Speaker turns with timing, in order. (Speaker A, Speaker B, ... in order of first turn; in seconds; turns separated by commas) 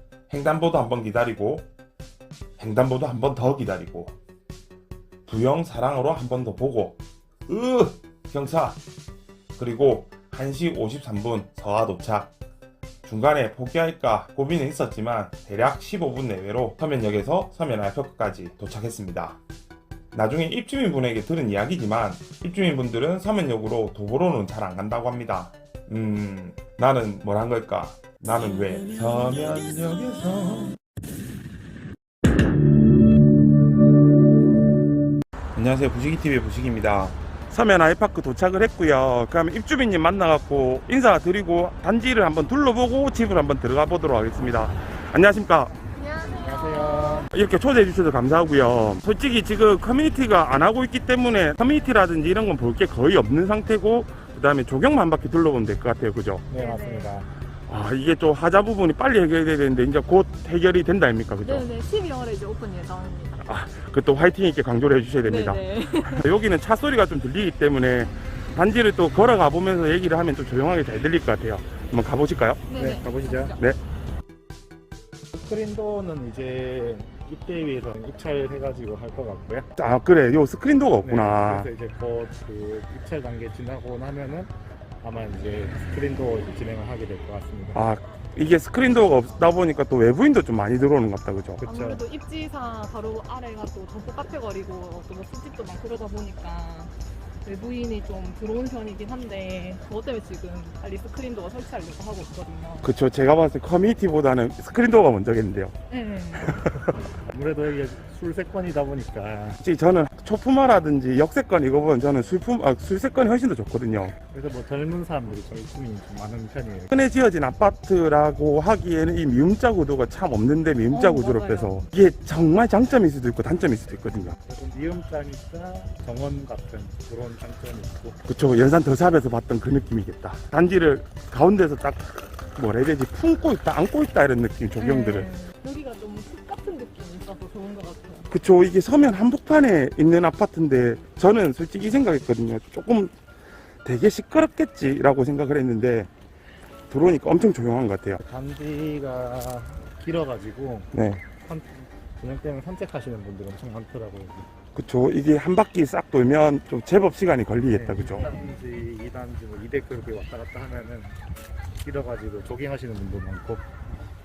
Speaker A: 0.3-1.7, Speaker A: 2.6-4.2, Speaker A: 5.3-8.8, Speaker A: 9.6-12.3, Speaker A: 13.0-19.4, Speaker A: 20.1-30.8, Speaker A: 35.5-45.7, Speaker B: 46.0-47.2, Speaker C: 46.3-47.3, Speaker A: 47.3-56.5, Speaker C: 56.5-57.3, Speaker B: 56.6-57.2, Speaker A: 57.7-61.7, Speaker B: 61.5-63.5, Speaker A: 63.4-72.7, Speaker B: 65.2-66.3, Speaker B: 72.7-73.6, Speaker C: 72.7-73.6, Speaker C: 75.3-79.7, Speaker A: 79.8-81.7, Speaker C: 81.0-87.9, Speaker A: 87.7-91.6, Speaker C: 91.6-92.0, Speaker B: 91.7-96.9, Speaker B: 97.4-102.9, Speaker A: 102.8-105.7, Speaker B: 105.9-106.5, Speaker A: 106.4-106.9, Speaker C: 107.2-109.6, Speaker A: 109.6-114.1, Speaker C: 114.3-117.0, Speaker A: 116.9-124.4, Speaker B: 120.9-121.8, Speaker C: 124.4-128.4, Speaker A: 128.3-135.3, Speaker B: 134.8-138.3, Speaker A: 138.3-143.1, Speaker A: 143.8-146.1, Speaker A: 146.9-148.2, Speaker C: 148.2-154.5, Speaker A: 150.9-151.2, Speaker A: 154.8-158.3, Speaker C: 157.7-161.2, Speaker B: 158.1-158.5, Speaker C: 161.7-163.8